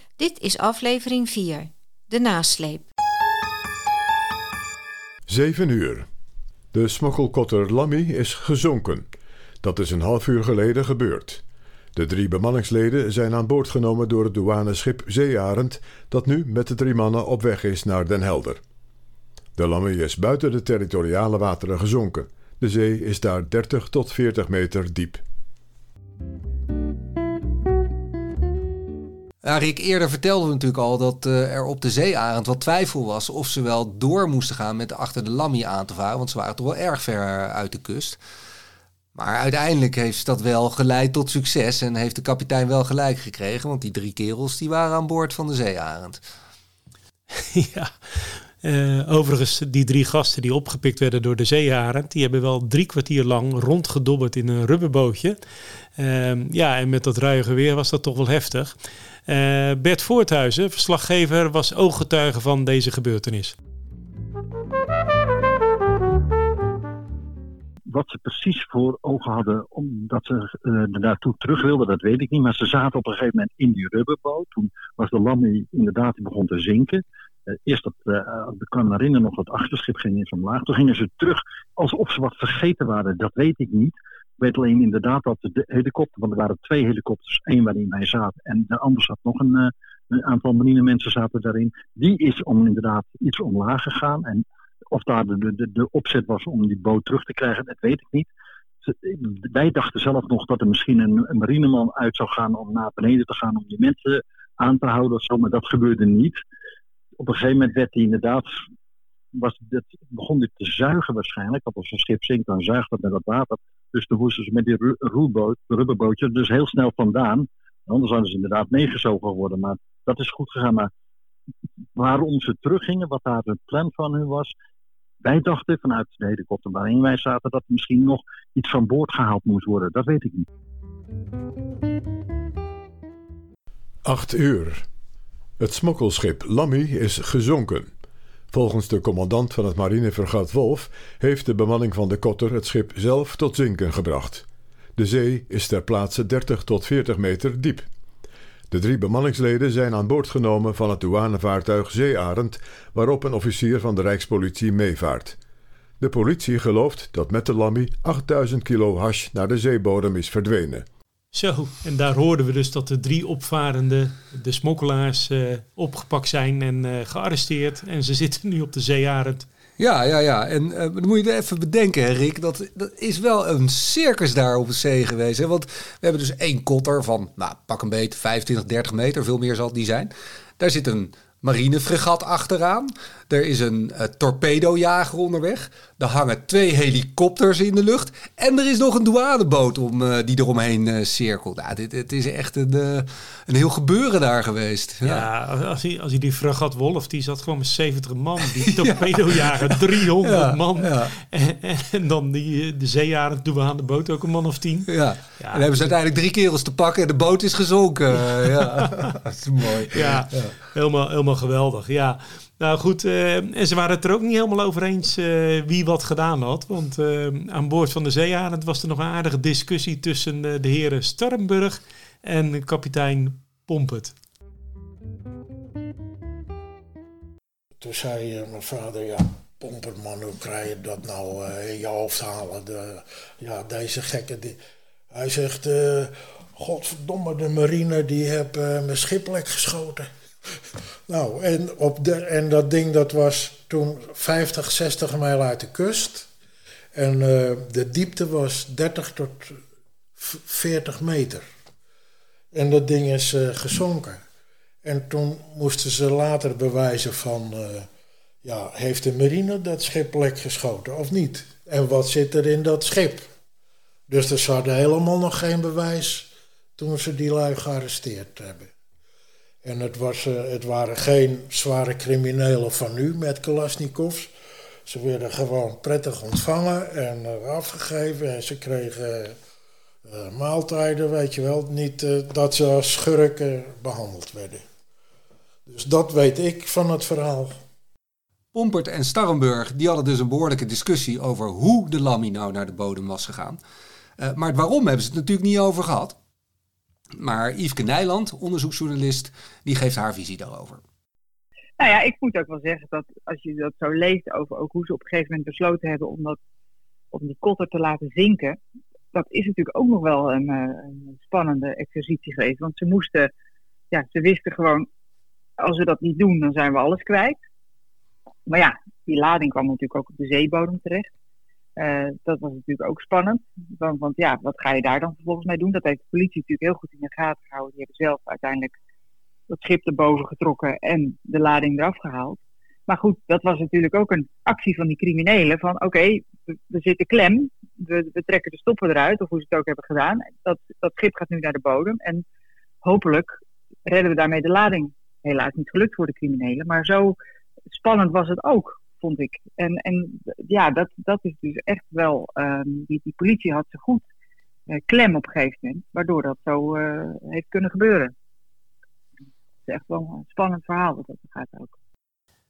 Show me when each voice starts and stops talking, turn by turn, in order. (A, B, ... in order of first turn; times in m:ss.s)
0:00.2-0:02.9 A
0:05.3-0:06.1 B
0:06.7-0:09.1 B
0:09.6-0:11.4 B
0:12.0-0:18.6 B
0:19.6-0:25.2 B
0:29.4-0:38.2 C
0:39.1-0:46.2 C
0:47.3-0:55.4 D
0:56.0-1:03.6 D
1:07.9-1:38.3 E
1:38.8-1:46.4 E
1:47.2-1:48.5 E
1:49.3-2:00.9 E
2:02.0-2:04.5 E
2:05.2-2:10.4 E
2:14.0-2:14.8 B
2:15.6-2:17.9 B
2:18.5-2:24.4 B
2:25.0-2:27.9 B
2:28.7-2:35.4 B
2:36.0-2:40.8 B
2:41.3-2:49.4 D
2:49.8-3:15.3 C
3:15.0-3:25.9 D
3:18.6-3:21.1 C
3:24.9-3:30.6 C
3:28.4-3:29.1 D
3:29.9-3:44.1 D
3:47.8-3:54.6 F
3:55.1-4:06.3 F
4:06.9-4:09.6 F
4:10.2-4:11.4 F
4:12.5-4:14.2 F
4:14.8-4:17.9 F
4:18.4-4:23.3 F
4:24.1-4:28.7 F
4:29.6-4:34.3 F
4:34.8-4:39.4 F
4:40.0-4:44.6 F
4:45.6-4:47.6 F
4:48.5-4:53.6 C
4:54.2-4:56.2 C
4:57.2-5:00.8 C
5:01.8-5:06.4 G
5:07.1-5:08.6 G
5:09.1-5:13.3 G
5:13.9-5:14.9 G
5:15.6-5:17.4 G
5:18.5-5:21.1 G
5:21.8-5:28.8 G
5:29.5-5:42.2 G
5:42.8-5:47.2 G
5:47.7-5:54.1 G
5:54.7-5:58.1 G
5:59.7-6:01.8 G